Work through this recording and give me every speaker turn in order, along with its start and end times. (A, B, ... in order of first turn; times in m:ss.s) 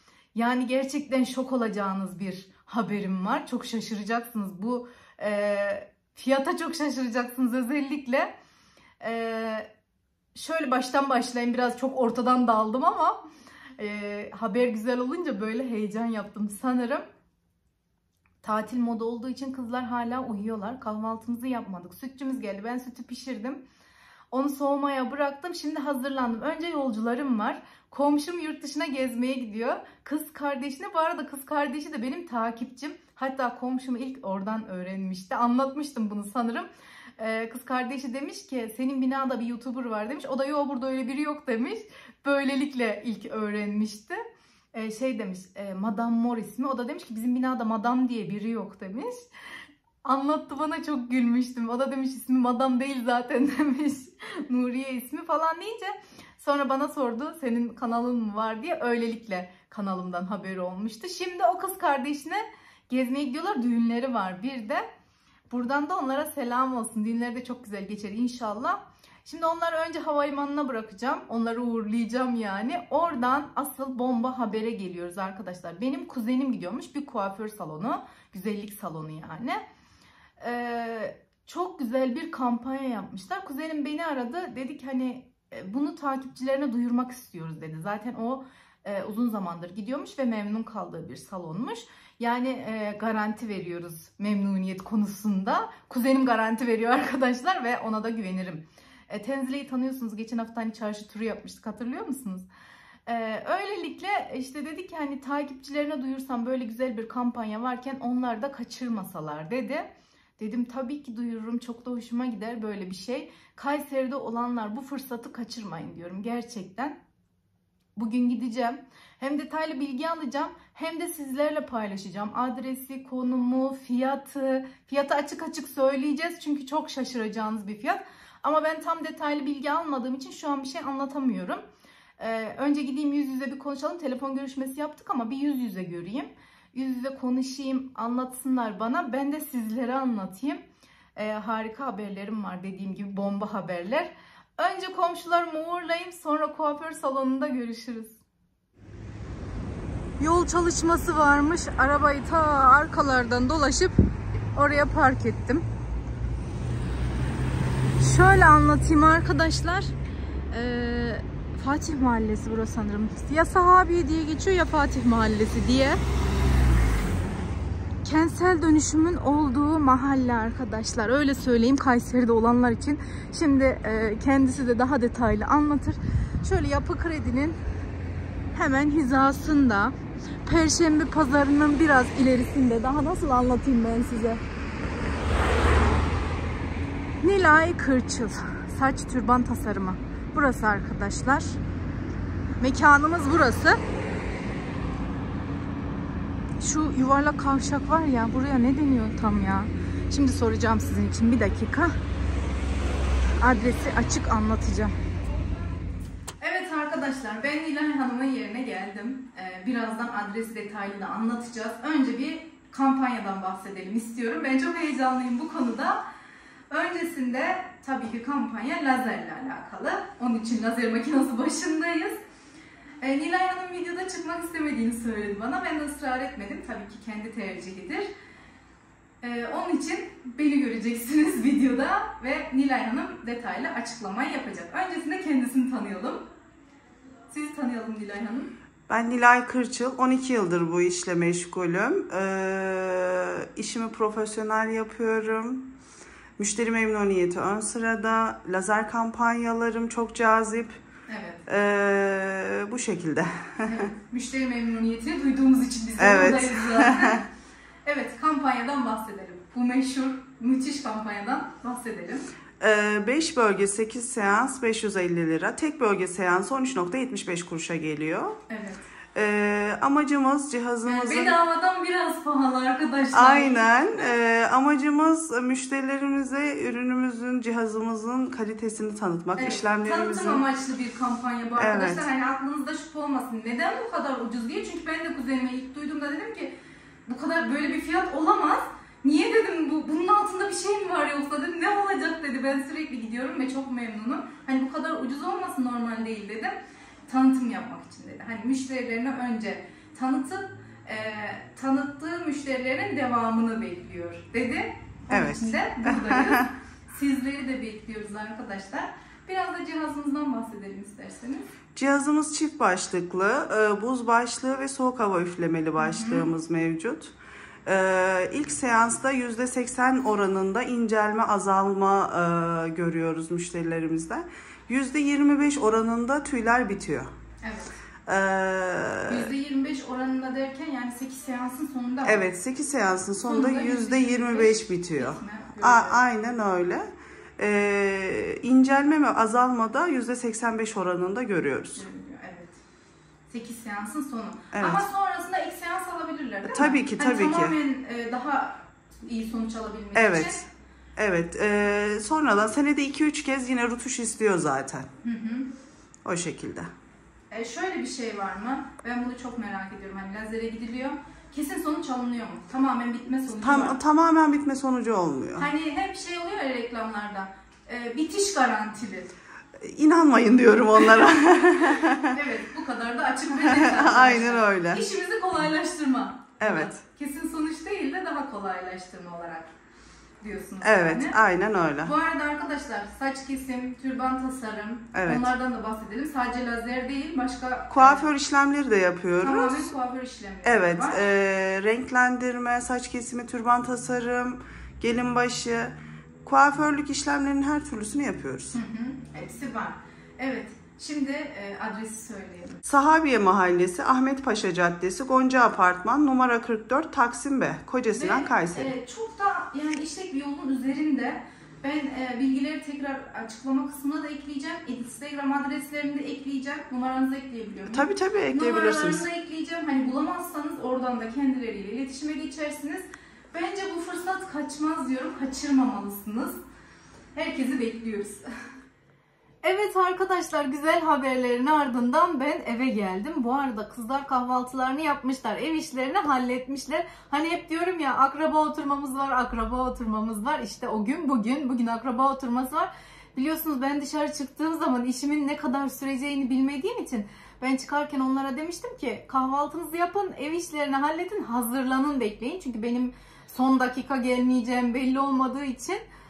0:00.3-0:08.3 A
0:09.0-0:09.7 A
0:10.3-0:13.2 A
0:13.8-0:17.0 A
0:18.4-0:23.6 A
0:24.3-0:36.7 A
0:37.2-0:44.2 A
0:44.7-0:49.3 A
0:50.0-1:04.8 A
1:05.5-1:19.6 A
1:20.4-1:42.5 A
1:43.0-1:57.0 A
1:58.0-2:11.6 A
2:12.2-2:20.6 A
2:21.2-2:28.2 A
2:30.2-2:34.0 A
2:34.5-2:35.6 A
2:38.0-2:39.9 A
2:40.5-2:46.0 A
2:48.0-2:57.6 A
2:58.5-3:04.4 A
3:07.2-3:11.6 A
3:12.6-3:13.8 A
3:16.6-3:22.0 A
3:23.4-3:24.9 A
3:26.4-3:36.0 A
3:36.7-3:42.2 A
3:43.0-3:48.1 A
3:49.2-3:56.2 A
3:57.3-3:58.5 A
3:58.9-4:05.7 B
4:06.4-4:10.8 B
4:11.1-4:11.4 A
4:11.5-4:13.8 B
4:13.6-4:17.3 A
4:16.0-4:17.2 B
4:17.8-4:22.3 A
4:22.6-4:28.4 B
4:28.5-4:28.9 A
4:29.1-4:31.4 B
4:30.8-4:33.8 A
4:33.1-4:40.4 B
4:39.4-5:11.5 A
4:41.6-4:42.0 B
5:05.1-5:06.5 B
5:11.7-5:17.1 B
5:15.8-5:16.3 A
5:17.6-5:27.1 B
5:27.4-5:27.7 A
5:28.1-5:29.3 B
5:29.1-5:32.2 A
5:32.0-5:41.8 B
5:33.2-5:36.0 A
5:41.7-5:42.6 A
5:43.3-5:50.4 A
5:44.5-5:44.8 B
5:46.5-5:47.6 B
5:49.9-5:50.4 B
5:51.0-5:54.9 B
5:55.0-5:55.5 A
5:56.0-5:56.7 B
5:57.3-6:03.8 A
6:03.4-6:05.5 B
6:05.4-6:09.1 A
6:09.6-6:12.1 B
6:10.8-6:11.1 A
6:11.7-6:19.5 A
6:13.4-6:14.8 B
6:16.4-6:16.8 B
6:20.2-6:21.2 A
6:20.6-6:21.9 B
6:21.8-6:28.1 A
6:24.9-6:25.3 B
6:27.7-6:29.7 B
6:29.2-6:31.0 A
6:30.4-6:38.6 B
6:38.5-6:42.6 A
6:42.6-6:48.7 B
6:47.9-7:06.4 A
6:57.7-6:59.0 B
7:07.1-7:08.2 A
7:09.4-7:35.8 A